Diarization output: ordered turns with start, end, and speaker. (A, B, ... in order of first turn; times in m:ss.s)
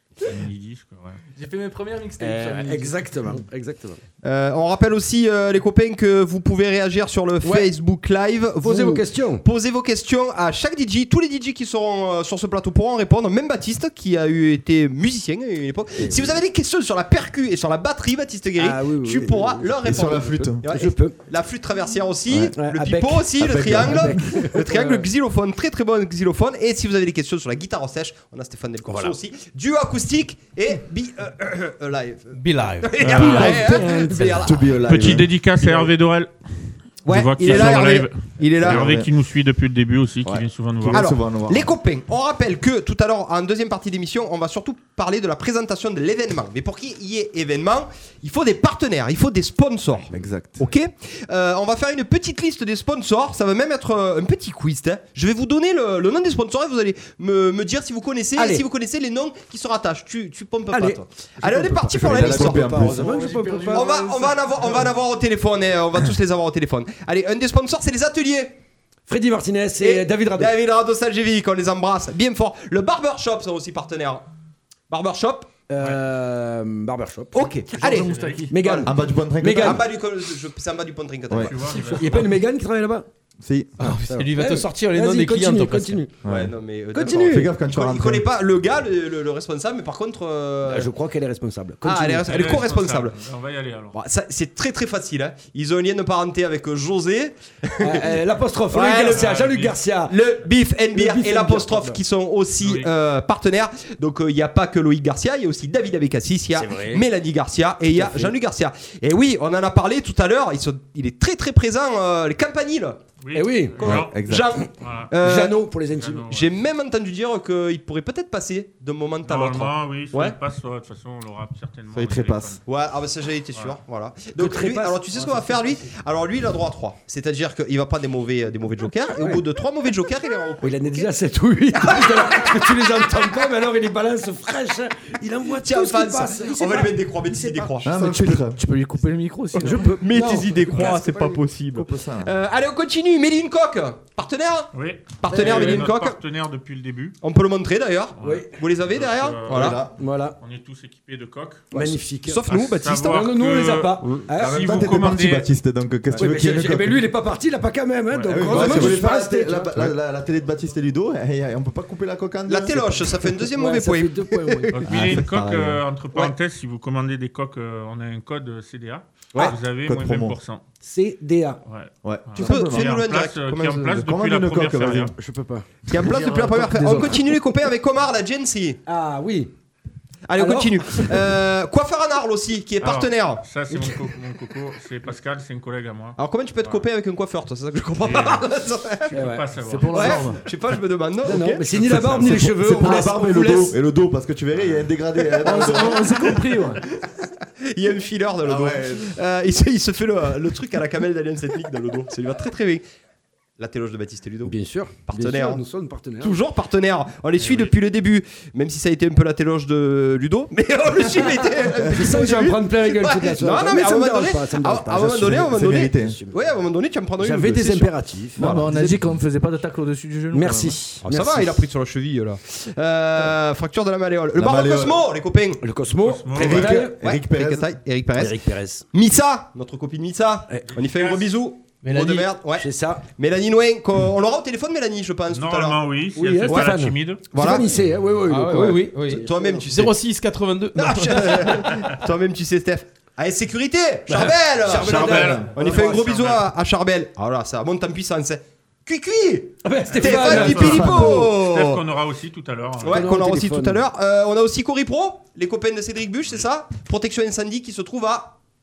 0:00.2-0:01.2 A
0:01.4-0:03.0 B
0:02.2-0:04.0 C
0:04.2-0:35.1 D
0:07.4-0:07.7 C
0:08.6-0:09.4 C
0:16.0-0:16.4 C
0:18.6-0:21.2 C
0:19.8-0:20.6 E
0:22.4-0:25.1 C
0:23.4-0:24.3 E
0:28.8-0:29.2 C
0:32.3-0:34.4 F
0:33.0-0:33.6 A
0:33.2-0:33.8 E
0:33.2-0:34.4 C
0:34.3-0:35.3 E
0:34.8-0:36.3 A
0:37.1-0:38.9 D
0:37.1-0:41.1 A
0:37.5-0:37.8 E
0:38.6-0:39.1 E
0:40.2-0:41.7 E
0:40.9-1:02.9 D
0:50.1-0:50.7 E
0:58.4-0:58.6 C
1:00.7-1:04.0 C
1:01.9-1:03.1 E
1:02.8-1:04.8 B
1:03.7-1:08.6 D
1:09.1-1:10.6 C
1:09.8-1:14.2 D
1:14.9-1:15.5 D
1:15.7-1:19.8 C
1:17.4-1:18.9 D
1:17.7-1:18.8 B
1:18.1-1:18.4 A
1:18.8-1:19.9 E
1:19.6-1:22.1 D
1:21.4-1:22.3 A
1:21.9-1:23.1 C
1:23.4-1:23.8 E
1:23.8-1:26.0 F
1:24.1-1:26.2 C
1:26.2-1:26.5 E
1:26.2-1:30.9 D
1:26.9-1:27.5 C
1:27.1-1:28.3 E
1:30.6-1:32.4 C
1:31.8-1:33.2 D
1:32.2-1:34.0 A
1:33.9-1:39.4 D
1:37.8-1:40.2 C
1:39.0-1:39.8 A
1:40.1-1:53.0 D
1:40.9-1:42.0 C
1:42.6-1:42.9 A
1:46.6-1:47.0 C
1:47.9-1:48.4 C
1:53.2-1:54.2 A
1:53.3-1:54.2 C
1:53.8-1:54.6 E
1:53.9-1:55.6 D
1:54.8-1:55.1 A
1:55.2-1:56.4 C
1:55.9-1:56.5 A
1:56.3-2:00.4 D
1:59.2-2:02.6 A
2:01.9-2:02.6 E
2:02.7-2:11.1 D
2:04.4-2:05.6 C
2:09.2-2:09.4 C
2:10.6-2:17.9 C
2:11.9-2:12.6 D
2:15.6-2:18.0 D
2:17.8-2:18.6 E
2:18.5-2:20.0 B
2:19.6-2:21.4 C
2:20.0-2:26.2 D
2:21.7-2:22.3 E
2:24.7-2:27.2 A
2:25.3-2:25.9 C
2:27.2-2:29.8 D
2:28.2-2:31.7 A
2:28.2-2:28.5 C
2:29.5-2:29.9 E
2:30.0-2:30.4 C
2:31.7-2:35.2 C
2:31.7-2:33.1 D
2:32.5-2:35.5 A
2:34.4-2:37.1 E
2:36.2-2:39.9 C
2:38.1-2:39.0 A
2:38.3-2:43.1 E
2:42.5-2:45.0 D
2:43.5-2:44.9 C
2:44.7-2:50.6 A
2:44.9-2:45.8 E
2:49.4-2:50.4 E
2:50.8-2:51.6 C
2:51.7-2:55.1 A
2:52.0-2:52.9 E
2:52.4-2:52.8 C
2:52.4-2:54.1 D
2:53.9-2:55.1 E
2:55.2-2:55.7 C
2:55.9-2:58.8 D
2:56.0-2:57.2 B
2:56.8-2:57.3 C
2:58.9-2:59.5 C
3:00.3-3:03.4 D
3:00.4-3:01.4 C
3:02.8-3:06.9 A
3:06.2-3:09.1 D
3:08.0-3:08.5 A
3:09.1-3:10.3 A
3:09.1-3:09.6 C
3:09.6-3:10.4 B
3:09.9-3:11.6 D
3:11.2-3:13.8 C
3:11.8-3:16.3 E
3:15.4-3:16.8 B
3:17.7-3:22.8 D
3:18.4-3:19.1 E
3:23.6-3:24.6 D
3:24.5-3:26.4 C
3:25.1-3:25.6 D
3:26.2-3:38.8 D
3:27.4-3:27.7 A
3:31.2-3:36.4 C
3:35.3-3:36.2 E
3:37.2-3:39.0 C
3:38.4-3:40.8 B
3:40.3-3:41.6 C
3:41.0-3:45.6 D
3:44.4-3:45.0 E
3:45.6-3:47.2 C
3:46.0-3:46.7 A
3:46.3-3:47.8 E
3:46.4-3:48.4 D
3:48.2-3:48.8 C
3:48.9-3:55.8 D
3:50.9-3:51.2 A
3:51.8-3:52.3 F
3:52.6-3:53.0 C
3:55.3-3:57.3 A
3:56.2-3:59.7 C
3:57.3-3:57.7 D
3:58.3-4:01.4 F
3:59.1-4:00.0 D
4:00.8-4:11.6 D
4:04.1-4:06.1 C
4:04.8-4:06.5 A
4:05.2-4:05.5 E
4:09.6-4:11.3 C
4:09.9-4:13.0 A
4:10.4-4:11.8 E
4:12.8-4:18.4 D
4:12.8-4:13.8 C